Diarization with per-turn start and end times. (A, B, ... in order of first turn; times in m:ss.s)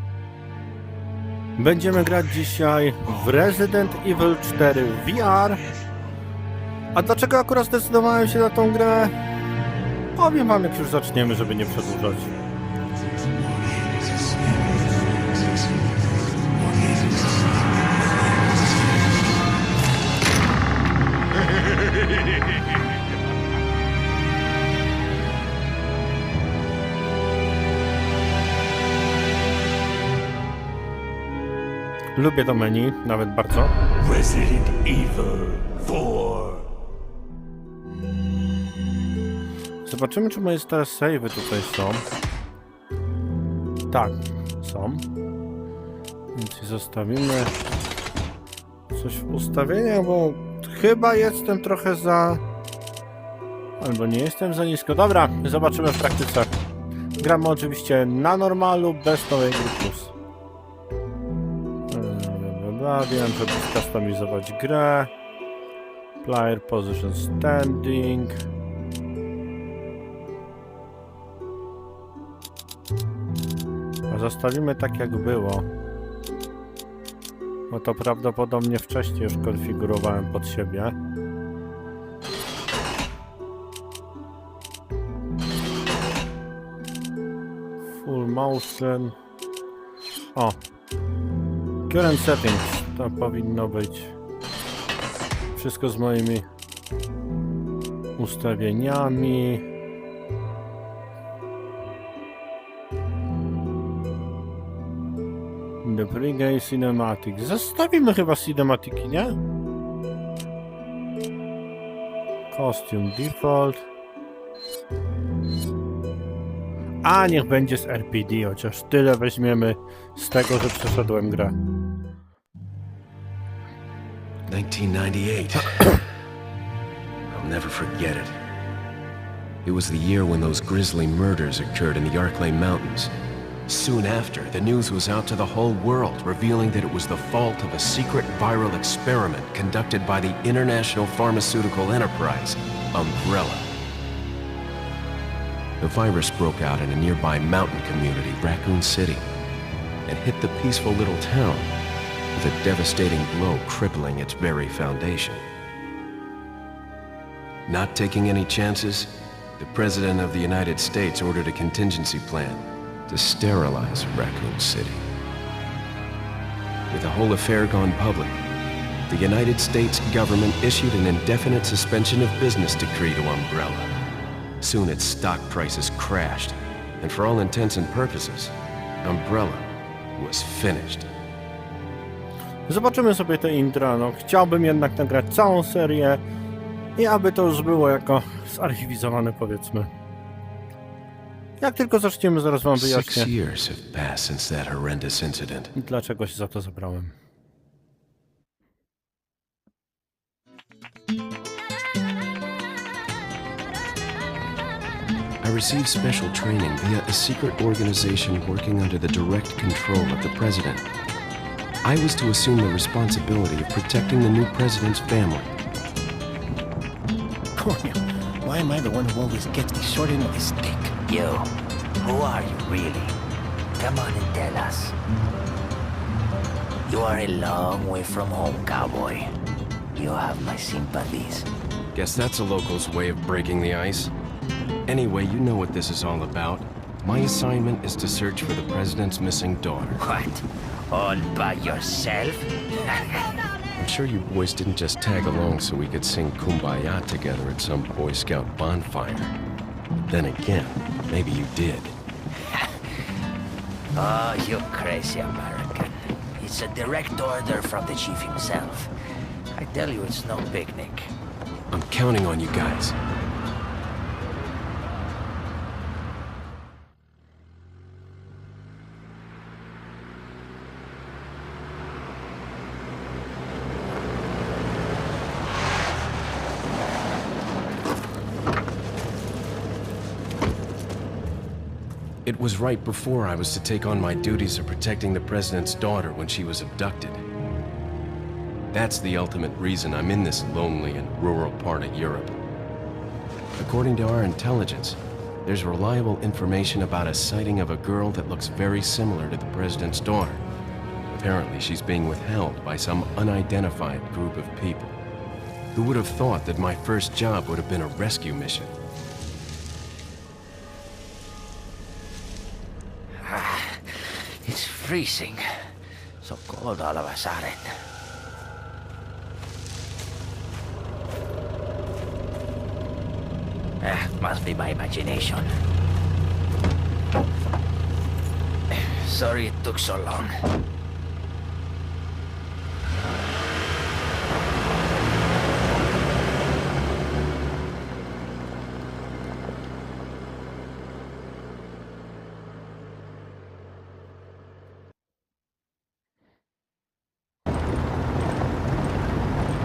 0:01.6-0:05.6 A
0:06.9-0:09.1 A
0:10.2-0:12.3 A
0:32.2-0:33.7 A
0:34.0-0:36.6 B
0:39.8-0:42.0 A
0:43.9-0:45.0 A
0:46.3-0:47.5 A
0:48.9-0:52.4 A
0:53.8-0:56.5 A
0:57.2-1:00.1 A
1:01.9-1:05.1 A
1:06.2-1:08.4 A
1:14.1-1:15.7 A
1:17.7-1:21.0 A
1:28.0-1:29.2 A
1:31.9-1:34.1 A
1:35.6-1:36.5 A
1:38.2-1:39.6 A
1:45.8-1:49.4 A
1:52.5-1:53.8 A
1:57.0-2:01.6 A
2:04.5-2:06.0 C
2:07.3-2:08.4 C
2:09.6-2:13.1 C
2:13.7-2:23.7 C
2:25.8-2:29.3 C
2:30.1-2:31.7 C
2:32.3-2:35.4 C
2:37.7-2:45.0 C
2:46.9-2:48.4 C
2:49.1-2:53.9 C
2:54.6-3:01.1 C
3:02.7-3:06.2 A
3:07.0-3:09.9 A
3:11.6-3:13.3 A
3:12.8-3:15.7 C
3:15.8-3:17.1 A
3:25.4-3:30.9 C
3:31.8-3:35.6 C
3:37.6-3:40.9 B
3:41.0-3:43.2 D
3:43.8-3:45.0 D
3:46.9-3:49.3 D
3:49.9-3:51.5 D
3:51.9-3:54.1 C
3:54.9-4:00.0 C
4:00.0-4:03.2 D
4:03.8-4:09.3 C
4:10.1-4:11.9 C
4:12.4-4:12.8 D
4:13.9-4:18.9 D
4:19.6-4:21.1 D
4:21.7-4:23.0 C
4:42.2-4:47.2 C
4:48.7-4:52.4 C
4:53.6-5:00.4 C
5:01.1-5:05.0 C
5:05.7-5:08.8 C
5:13.2-5:15.7 D
5:16.2-5:17.9 D
5:23.8-5:25.6 D
5:28.7-5:30.3 D